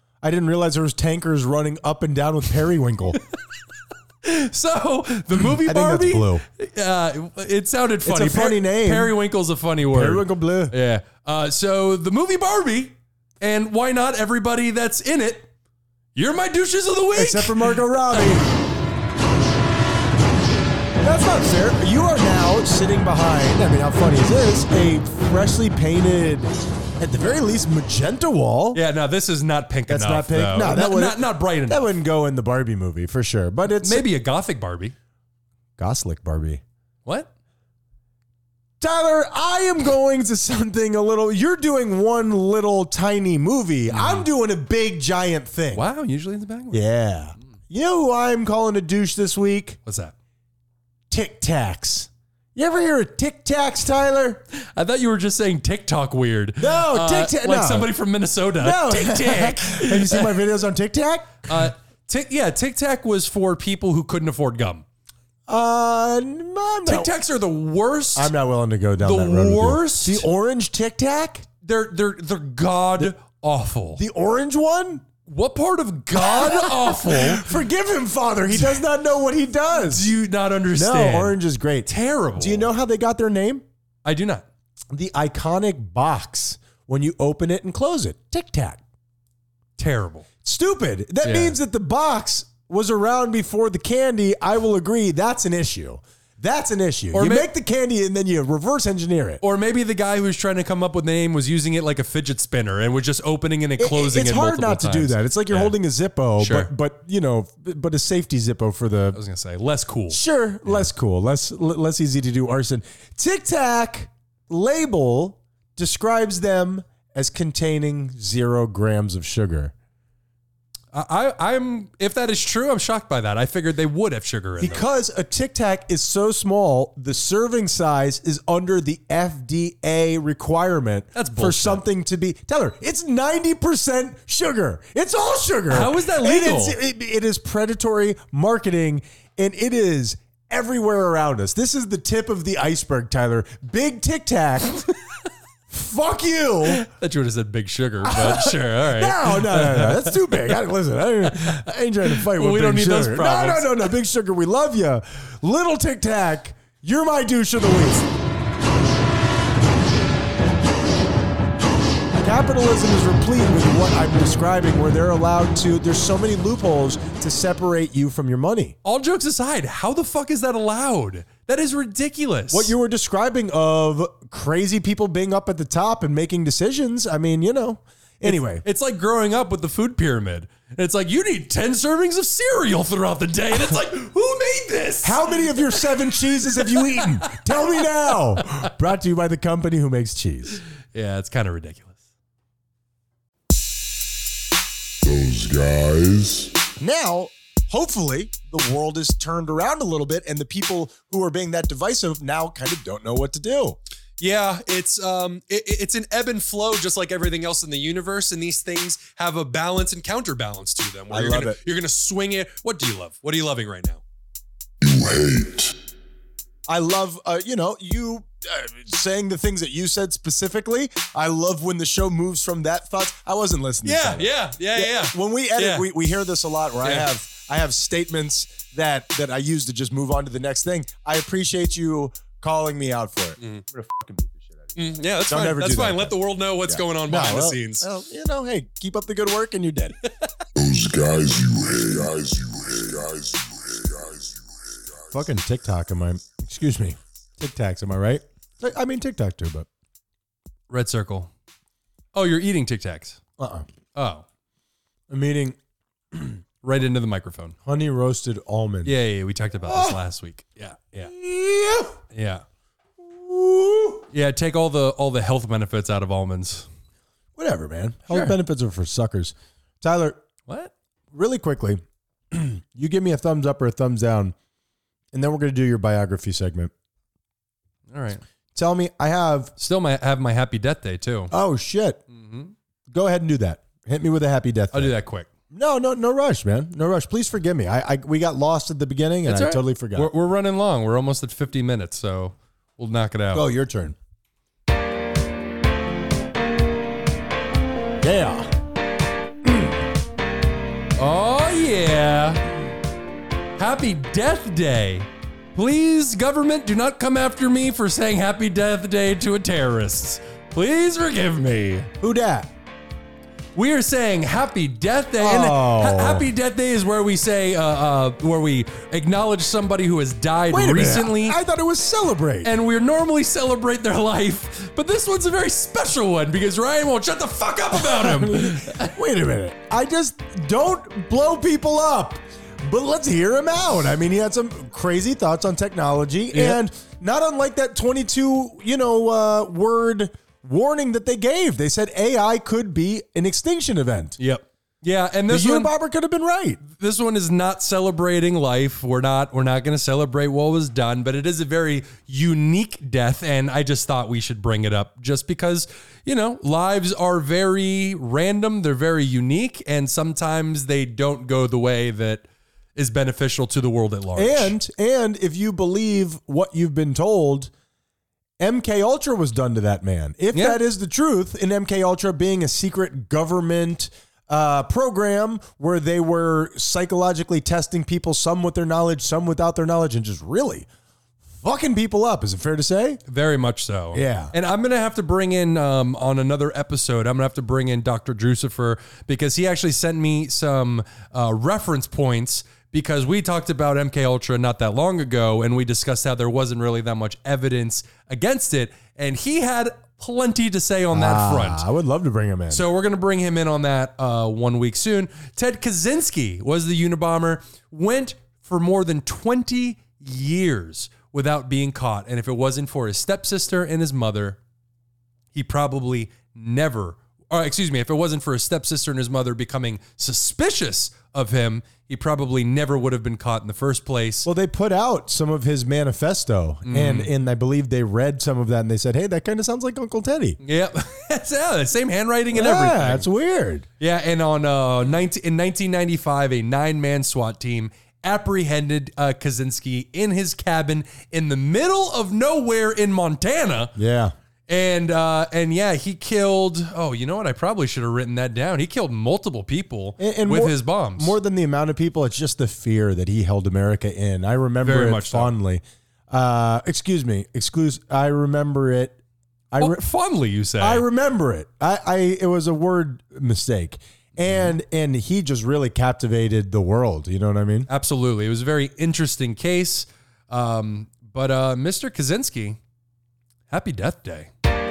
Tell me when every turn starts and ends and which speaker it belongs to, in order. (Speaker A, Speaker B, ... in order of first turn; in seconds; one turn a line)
Speaker A: 0.2-3.2
Speaker B: 4.2-15.5
Speaker A: 5.6-6.4
Speaker A: 8.1-9.2
Speaker A: 9.9-10.8
Speaker B: 16.1-18.5
Speaker A: 17.1-18.4
Speaker A: 21.0-28.8
Speaker B: 28.7-31.9
Speaker A: 29.9-34.0
Speaker B: 33.8-35.0
Speaker A: 35.8-36.6
Speaker A: 38.8-45.9
Speaker B: 43.9-44.3
Speaker B: 45.7-46.8
Speaker A: 46.7-49.8
Speaker B: 49.9-50.1
Speaker A: 51.1-54.4
Speaker B: 54.5-60.4
Speaker A: 56.6-57.9
Speaker A: 58.6-61.6
Speaker B: 61.5-64.8
Speaker A: 65.5-67.1
Speaker B: 66.9-68.3
Speaker A: 68.2-71.5
Speaker B: 69.0-70.3
Speaker B: 71.6-74.0
Speaker A: 74.0-75.0
Speaker B: 75.3-77.5
Speaker A: 76.2-80.1
Speaker B: 78.5-78.8
Speaker B: 79.8-82.7
Speaker A: 80.7-83.6
Speaker B: 84.0-84.4
Speaker A: 84.9-88.8
Speaker B: 89.8-90.3
Speaker A: 90.4-99.4
Speaker B: 91.2-91.6
Speaker B: 97.1-97.5
Speaker B: 99.4-105.8
Speaker A: 103.8-109.2
Speaker B: 106.4-106.7
Speaker B: 109.1-110.9
Speaker A: 110.1-119.7
Speaker B: 120.9-124.8
Speaker A: 124.6-144.8
Speaker B: 131.2-131.8
Speaker B: 135.7-136.8
Speaker A: 145.7-146.9
Speaker B: 146.7-150.6
Speaker A: 148.0-158.1
Speaker B: 151.3-153.9
Speaker A: 162.2-168.8
Speaker B: 168.8-172.7
Speaker A: 172.5-178.6
Speaker B: 178.2-185.9
Speaker A: 185.0-190.6
Speaker B: 186.7-187.1
Speaker B: 190.9-192.0
Speaker C: 195.0-196.6
Speaker A: 196.8-203.8
Speaker B: 204.2-214.0
Speaker A: 211.1-211.6
Speaker C: 214.8-215.7
Speaker A: 216.7-240.0
Speaker B: 223.8-225.9
Speaker B: 226.8-227.1
Speaker B: 234.8-237.9
Speaker C: 240.6-245.3
Speaker A: 245.1-249.7
Speaker B: 250.7-251.3
Speaker B: 252.1-253.2
Speaker A: 253.4-253.7
Speaker B: 253.9-254.2
Speaker A: 255.1-255.6
Speaker A: 256.1-256.4
Speaker B: 256.6-257.6
Speaker A: 257.6-258.9
Speaker B: 258.9-261.1
Speaker A: 259.6-260.0
Speaker A: 261.0-262.0
Speaker B: 262.1-262.4
Speaker A: 263.0-264.0
Speaker B: 264.1-266.7
Speaker A: 267.4-270.2
Speaker B: 268.1-268.4
Speaker B: 270.5-270.7
Speaker A: 271.1-274.4
Speaker A: 275.1-276.7
Speaker B: 277.9-278.2
Speaker A: 278.6-279.5
Speaker B: 279.6-281.3
Speaker A: 281.3-282.0
Speaker B: 282.1-282.5
Speaker A: 282.9-284.9
Speaker B: 284.7-285.3
Speaker A: 285.5-290.1
Speaker B: 289.2-293.5
Speaker A: 293.3-294.0
Speaker A: 298.0-298.5
Speaker A: 299.4-299.8
Speaker B: 301.0-302.5
Speaker B: 303.6-311.9
Speaker A: 312.0-312.5
Speaker B: 313.6-321.4
Speaker A: 315.2-316.3
Speaker A: 320.5-322.5
Speaker B: 322.4-328.9
Speaker A: 327.7-344.2
Speaker B: 336.3-336.6
Speaker B: 344.2-345.7
Speaker A: 345.3-346.6
Speaker B: 346.6-364.5
Speaker A: 364.2-367.5
Speaker A: 368.4-380.7
Speaker B: 370.3-370.6
Speaker A: 381.4-383.0
Speaker B: 383.1-401.7
Speaker A: 383.9-384.3
Speaker A: 400.9-402.6
Speaker B: 402.5-414.4
Speaker B: 415.3-424.3
Speaker A: 424.2-430.4
Speaker B: 426.7-427.1
Speaker B: 430.4-433.1
Speaker A: 432.3-433.7
Speaker B: 433.8-443.7
Speaker A: 443.8-444.1
Speaker B: 444.5-451.2
Speaker A: 450.0-459.0
Speaker B: 454.6-455.3
Speaker A: 459.5-459.8
Speaker B: 459.6-460.9
Speaker A: 460.6-467.7
Speaker B: 467.7-472.6
Speaker B: 473.5-474.3